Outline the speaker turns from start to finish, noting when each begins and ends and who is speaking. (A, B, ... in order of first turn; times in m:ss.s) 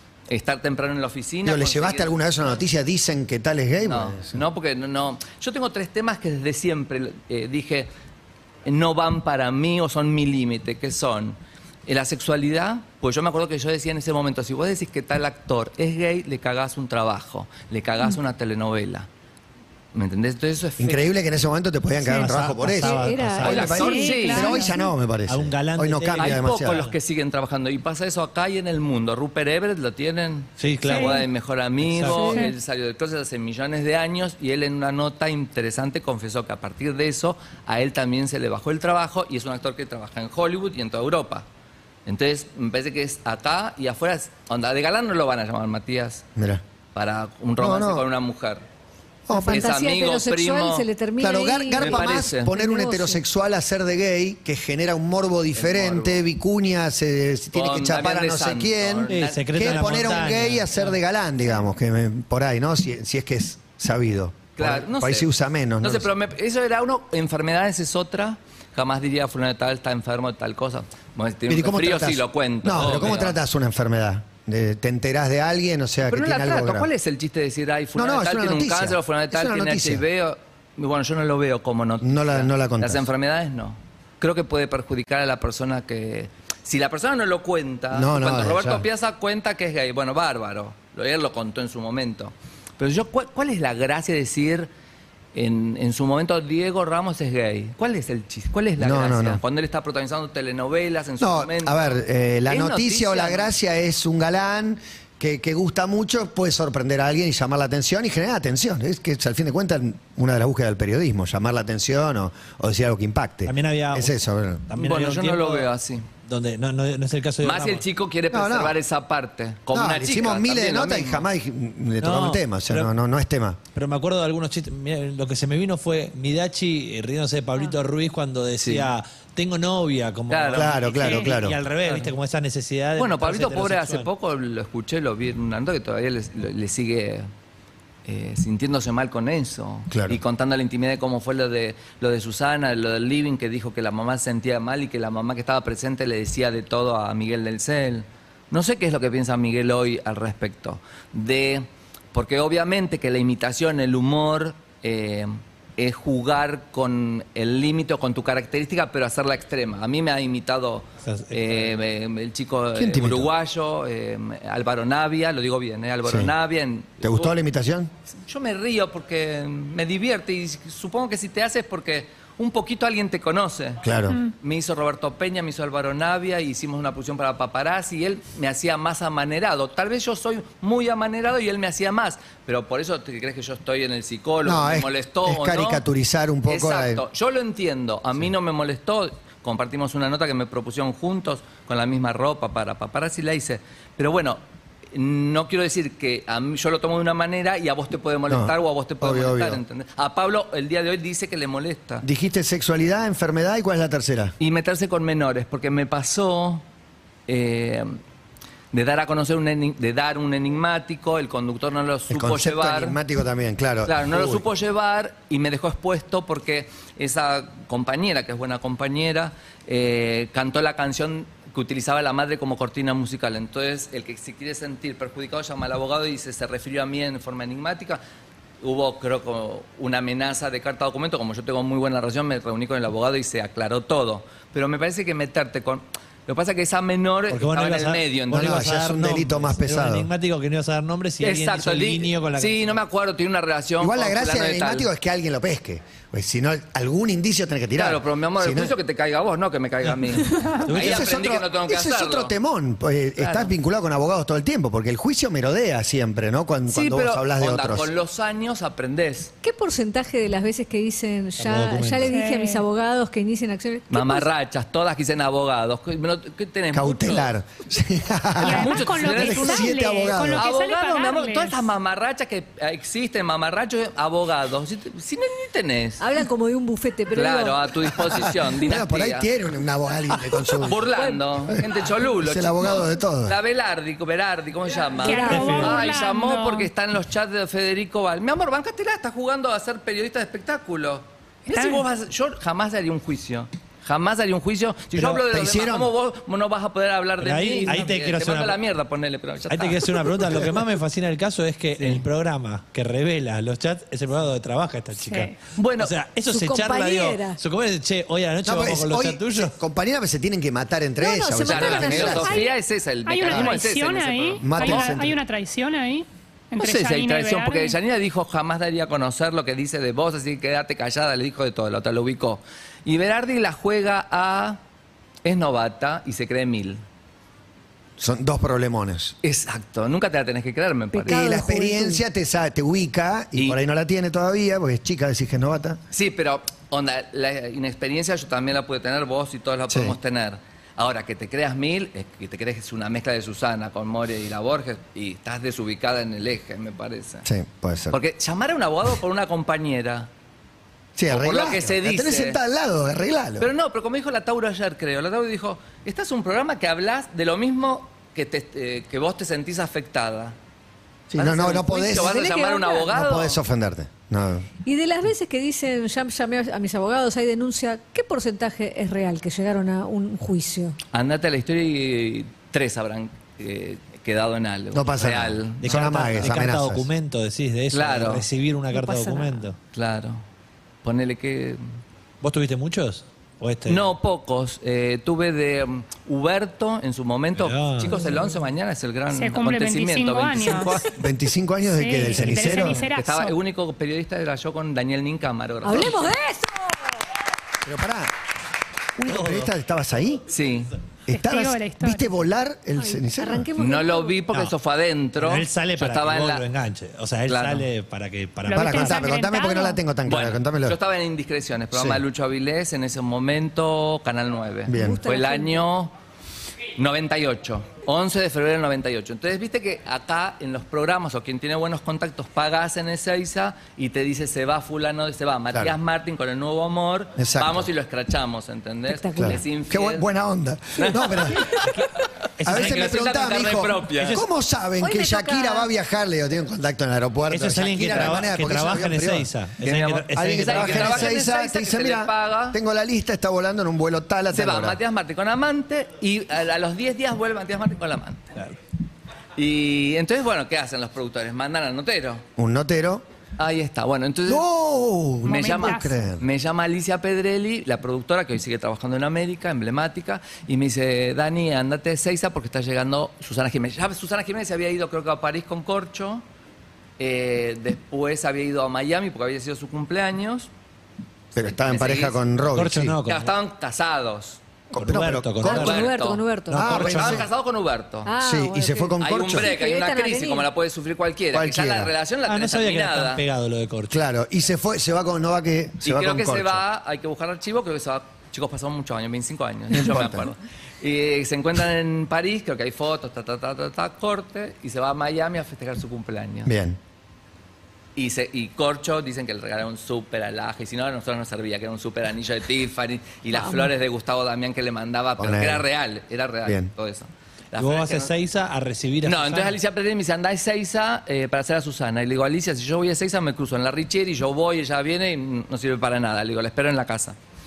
0:00.3-0:02.2 A
0:01.4-0:04.4 B
0:03.8-0:07.9 A
0:08.6-0:19.1 A
0:19.9-0:21.1 A
0:20.8-0:26.8 B
0:22.0-0:23.8 C
0:22.2-0:24.5 D
0:23.4-0:24.6 A
0:23.7-0:24.8 E
0:25.3-0:26.9 C
0:26.2-0:41.4 A
0:30.6-0:31.2 C
0:30.8-0:31.2 E
0:31.8-0:32.3 C
0:32.1-0:32.5 D
0:32.2-0:32.5 E
0:42.0-0:46.2 A
0:46.4-0:46.6 B
0:46.9-0:48.6 A
0:47.6-0:48.1 B
0:49.3-0:49.7 B
0:49.3-0:53.2 D
0:49.5-0:50.9 A
0:51.2-1:06.1 B
0:51.7-0:52.5 A
0:55.5-0:56.2 A
0:57.5-1:00.5 A
0:59.1-1:00.7 C
1:04.6-1:05.3 A
1:05.8-1:13.4 A
1:11.5-1:16.9 B
1:16.1-1:34.7 A
1:17.9-1:20.0 B
1:22.0-1:23.1 B
1:27.9-1:28.8 B
1:35.3-1:43.5 A
1:38.8-1:39.4 B
1:41.2-1:54.7 B
1:53.4-1:55.7 C
1:54.7-1:56.1 A
1:56.2-1:57.8 C
1:57.4-2:01.3 A
1:58.3-1:58.8 B
1:59.7-2:03.6 B
2:02.0-2:02.9 C
2:03.7-2:14.1 C
2:08.6-2:08.9 A
2:10.3-2:12.1 A
2:10.5-2:11.6 B
2:13.0-2:17.3 A
2:18.0-2:47.4 A
2:19.9-2:20.2 B
2:41.0-2:41.8 C
2:42.7-2:43.3 B
2:46.0-2:46.3 B
2:47.0-2:47.9 B
2:48.1-3:05.8 A
2:53.8-2:54.2 B
3:04.4-3:07.0 B
3:06.4-3:14.4 A
3:14.9-3:22.0 A
3:18.3-3:19.6 B
3:22.0-3:24.3 B
3:24.4-3:26.6 A
3:27.3-3:28.0 A
3:28.7-3:33.0 A
3:32.1-3:34.4 B
3:33.8-3:48.0 A
3:48.6-3:58.7 A
3:57.3-4:02.8 C
3:58.3-4:00.1 B
4:01.2-4:04.9 A
4:03.8-4:08.7 B
4:07.7-4:12.3 A
4:10.6-4:17.9 B
4:10.6-4:11.0 C
4:13.2-4:13.5 A
4:16.7-4:19.3 A
4:19.4-4:24.3 D
4:21.4-4:22.1 C
4:22.1-4:22.6 E
4:23.9-4:27.3 A
4:26.7-4:30.5 B
4:28.4-4:29.7 A
4:28.4-4:31.6 E
4:30.3-4:36.0 A
4:36.0-4:37.7 D
4:37.1-4:39.3 A
4:38.1-4:40.8 B
4:40.6-5:00.5 A
4:40.8-4:41.2 D
4:41.5-4:43.4 B
4:45.0-4:45.8 D
4:45.0-4:46.7 E
4:45.3-4:45.7 C
4:51.5-4:51.8 E
4:54.9-4:55.9 B
4:57.2-4:58.6 C
4:59.5-5:09.5 C
5:01.8-5:02.0 A
5:05.0-5:05.3 E
5:05.5-5:05.9 A
5:06.3-5:07.4 D
5:08.4-5:12.4 B
5:11.0-5:12.5 D
5:11.4-5:14.9 A
5:13.0-5:17.8 E
5:13.3-5:13.5 B
5:14.4-5:15.2 B
5:16.6-5:24.6 A
5:25.2-5:26.8 A
5:28.0-5:29.2 B
5:29.2-5:31.2 A
5:30.9-5:32.0 D
5:31.1-5:35.8 B
5:35.9-5:47.3 A
5:39.7-5:40.0 B
5:47.2-5:48.0 B
5:47.9-5:50.1 A
5:51.0-5:53.5 B
5:51.1-5:52.4 A
5:53.4-6:00.4 A
6:01.1-6:02.2 B
6:01.1-6:03.4 A
6:01.8-6:02.9 D
6:02.9-6:04.5 B
6:04.6-6:10.8 D
6:10.9-6:16.4 A
6:14.7-6:16.9 B
6:15.6-6:19.6 C
6:17.7-6:18.3 A
6:18.7-6:19.5 D
6:19.7-6:20.2 A
6:20.8-6:21.6 A
6:22.2-6:23.9 C
6:23.7-6:31.0 A
6:27.4-6:28.1 C
6:28.0-6:28.3 D
6:29.1-6:30.8 E
6:31.0-6:32.8 B
6:31.7-6:33.3 E
6:32.2-6:32.6 C
6:32.9-6:36.1 A
6:35.6-6:37.0 D
6:37.6-6:38.1 B
6:39.0-6:40.2 B
6:39.0-6:39.5 C
6:40.3-6:40.7 A
6:41.1-6:43.5 B
6:41.1-6:42.1 E
6:42.8-6:44.2 D
6:43.6-6:46.4 A
6:45.2-6:49.0 C
6:47.2-6:47.7 A
6:48.4-6:49.8 E
6:48.5-6:50.8 B
6:50.0-6:55.9 A
6:51.7-6:52.0 B
6:54.7-6:55.0 B
6:54.7-6:55.6 D
6:56.8-7:10.1 A
7:07.2-7:07.7 B
7:08.9-7:09.4 D
7:09.2-7:11.6 B
7:10.8-7:11.9 A
7:11.5-7:13.0 C
7:12.4-7:14.2 A
7:12.4-7:24.8 B
7:13.9-7:14.3 C
7:14.8-7:15.7 D
7:17.3-7:21.2 C
7:20.2-7:22.6 A
7:24.3-7:28.4 A
7:29.4-7:32.2 A
7:32.4-7:33.0 B
7:33.4-7:34.4 A
7:34.2-7:36.2 B
7:35.2-7:46.2 A
7:35.2-7:36.0 E
7:47.0-7:50.5 A
7:51.3-7:53.0 B
7:51.4-7:52.2 A
7:52.5-7:53.3 C
7:53.0-7:54.4 A
7:54.7-7:55.8 B
7:54.8-7:55.8 C
7:55.4-7:56.7 D
7:55.4-7:58.1 A
7:56.5-7:57.3 C
7:56.5-7:57.3 B
7:58.0-8:00.5 D
7:58.2-7:59.5 B
7:59.0-8:03.2 A
8:01.3-8:01.9 B
8:02.2-8:04.0 C
8:03.9-8:06.6 B
8:05.8-8:16.5 A
8:09.7-8:10.3 B
8:16.4-8:16.8 B
8:18.0-8:28.1 A
8:23.3-8:23.7 D
8:25.2-8:25.7 B
8:26.4-8:26.7 B
8:27.6-8:29.6 C
8:29.0-8:37.2 A